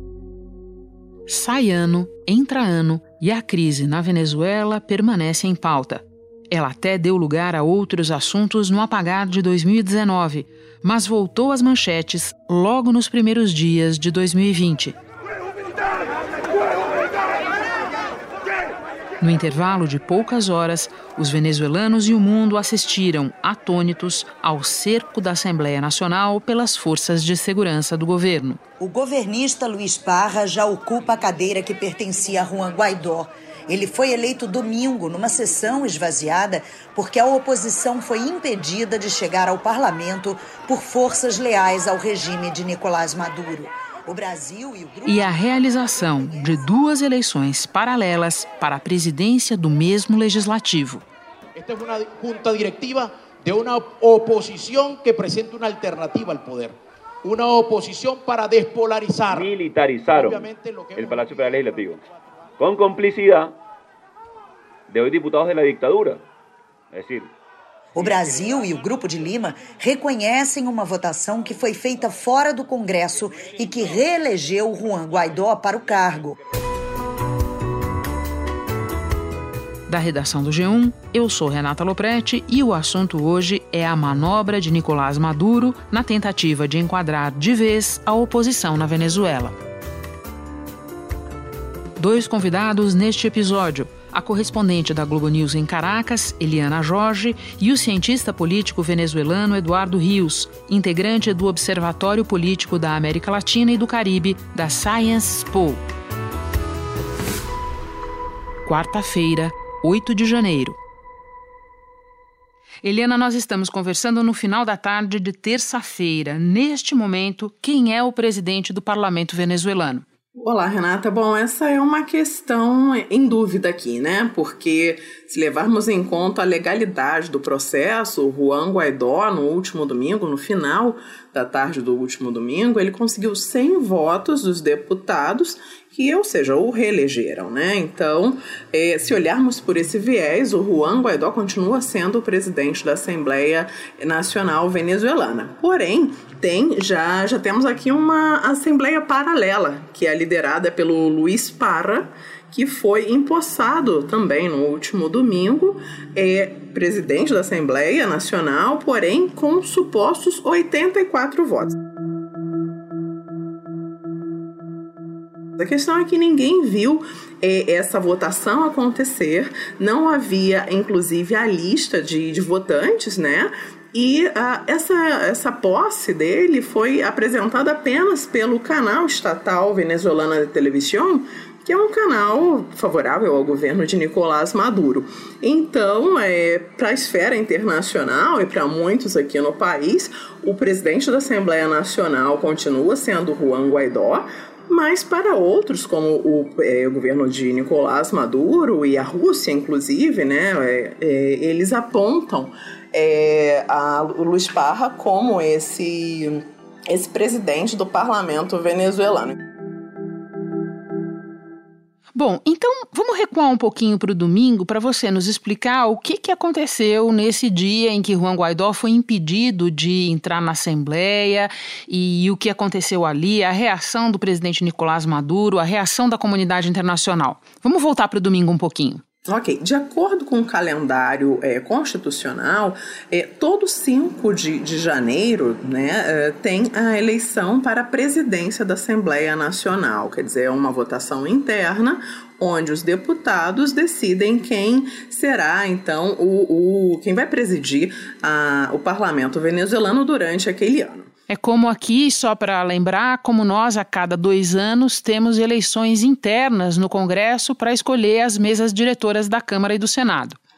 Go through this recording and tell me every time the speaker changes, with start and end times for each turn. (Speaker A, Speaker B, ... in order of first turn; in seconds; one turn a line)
Speaker A: 1.3-15.0
Speaker A: 19.2-28.6
Speaker B: 28.8-45.3
Speaker A: 45.0-51.0
Speaker C: 51.5-59.5
Speaker D: 59.3-62.0
Speaker C: 60.1-61.4
Speaker D: 62.6-63.5
Speaker D: 64.9-66.2
Speaker D: 66.9-67.3
Speaker B: 67.9-76.4
Speaker A: 79.9-89.5
Speaker A: 92.0-105.8
Speaker A: 108.6-110.8
Speaker A: 112.8-120.0
Speaker E: 120.4-161.8
Speaker E: 165.6-209.4
Speaker A: 212.1-229.0
Speaker E: 229.3-251.1
Speaker A: 251.3-260.4